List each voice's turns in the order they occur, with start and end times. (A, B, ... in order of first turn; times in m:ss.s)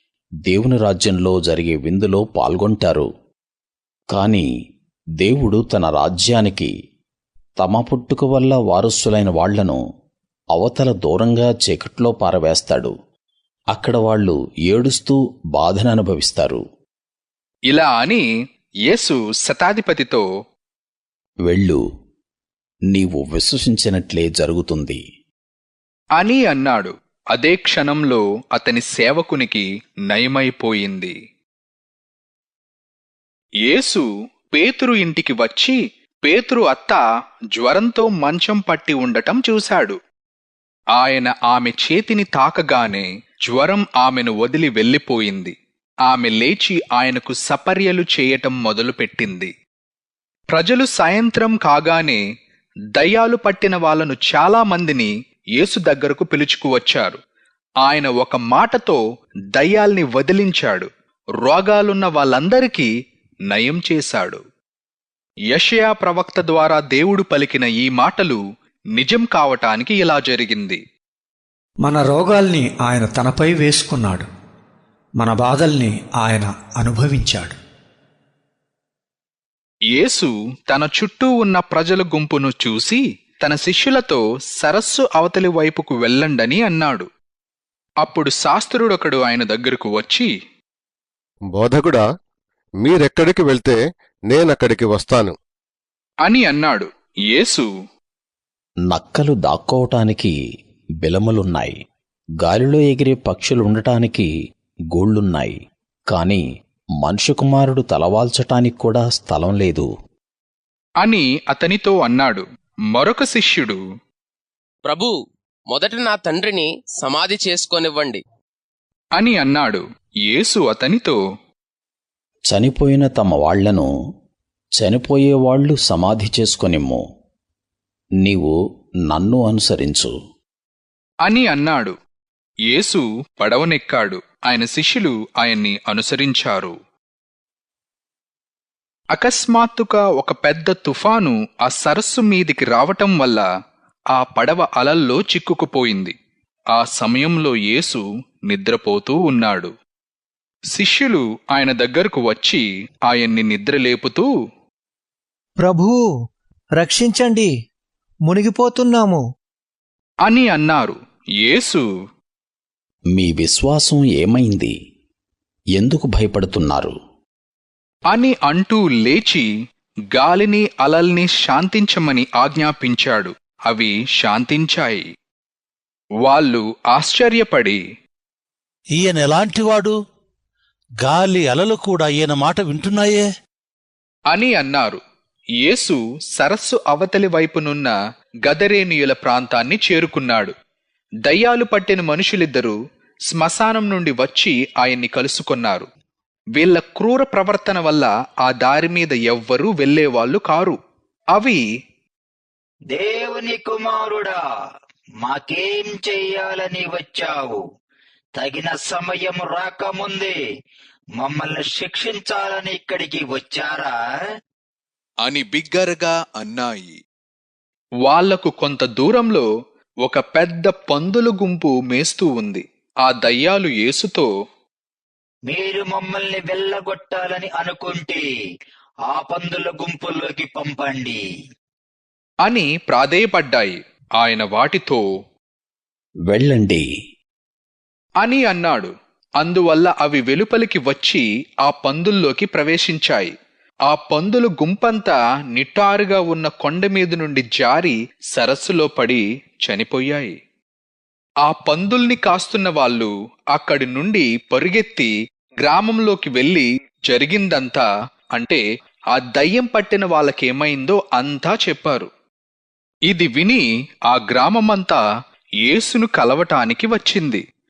0:00.5-0:03.1 A
0:04.1-0:04.5 A
0:05.2-0:06.7 A
0:07.6-0:09.8 A
0:10.6-0:12.9 A
0:13.7-0:16.6 A
0:17.7-0:18.2 B
0:18.9-0:20.3 B
0:21.5-0:21.8 A
0:22.9-0:25.0 A
0:26.2-0:31.2 B
0:33.7-0:37.0 B
0:37.6-0:40.0 B
0:41.0-0:45.6 B
0:46.1-0:49.5 B
0:50.5-0:52.2 B
0:53.0-0:57.2 B
0:57.8-0:59.0 B
0:59.6-1:00.9 B
1:01.4-1:02.9 B
1:03.5-1:04.4 B
1:05.5-1:08.4 B
1:09.0-1:10.8 B
1:11.8-1:14.3 C
1:15.2-1:17.6 C
1:19.9-1:27.1 B
1:28.0-1:30.3 B
1:31.5-1:32.0 D
1:32.8-1:35.4 D
1:36.2-1:37.7 B
1:38.9-1:40.3 A
1:41.0-1:41.8 A
1:42.4-1:44.3 A
1:44.9-1:45.5 A
1:46.1-1:46.4 A
1:47.0-1:49.9 A
1:51.0-1:53.8 B
1:54.8-1:55.1 E
1:55.7-1:58.2 E
1:59.2-2:01.2 B
2:02.5-2:03.9 A
2:04.8-2:07.0 A
2:08.2-2:08.6 A
2:09.1-2:10.1 A
2:11.2-2:12.0 B
2:12.7-2:16.8 B
2:19.2-2:23.4 B
2:24.2-2:26.1 B
2:26.7-2:29.7 B
2:30.7-2:34.3 B
2:35.6-2:36.0 F
2:36.8-2:37.5 F
2:38.3-2:39.2 F
2:40.3-2:41.9 B
2:43.2-2:44.7 A
2:45.8-2:46.9 A
2:48.1-2:49.5 B
2:50.1-2:55.1 B
2:56.2-2:57.8 B
2:59.0-2:59.9 G
3:01.0-3:03.2 G
3:04.3-3:05.0 B
3:05.6-3:07.9 B
3:08.5-3:10.5 B
3:11.3-3:12.8 B
3:13.3-3:15.9 B
3:16.6-3:20.8 B
3:21.4-3:21.6 B
3:22.9-3:24.4 H
3:25.2-3:27.6 H
3:28.4-3:30.3 H
3:31.2-3:34.0 H
3:35.2-3:37.0 B
3:38.0-3:39.5 B
3:40.0-3:44.3 B
3:45.5-3:48.2 H
3:49.1-3:51.2 H
3:52.4-3:55.1 B
3:56.3-3:56.9 A
3:58.2-4:03.3 B
4:03.9-4:10.4 B
4:11.4-4:18.6 B
4:19.1-4:22.1 B
4:23.1-4:25.0 B
4:25.7-4:27.4 B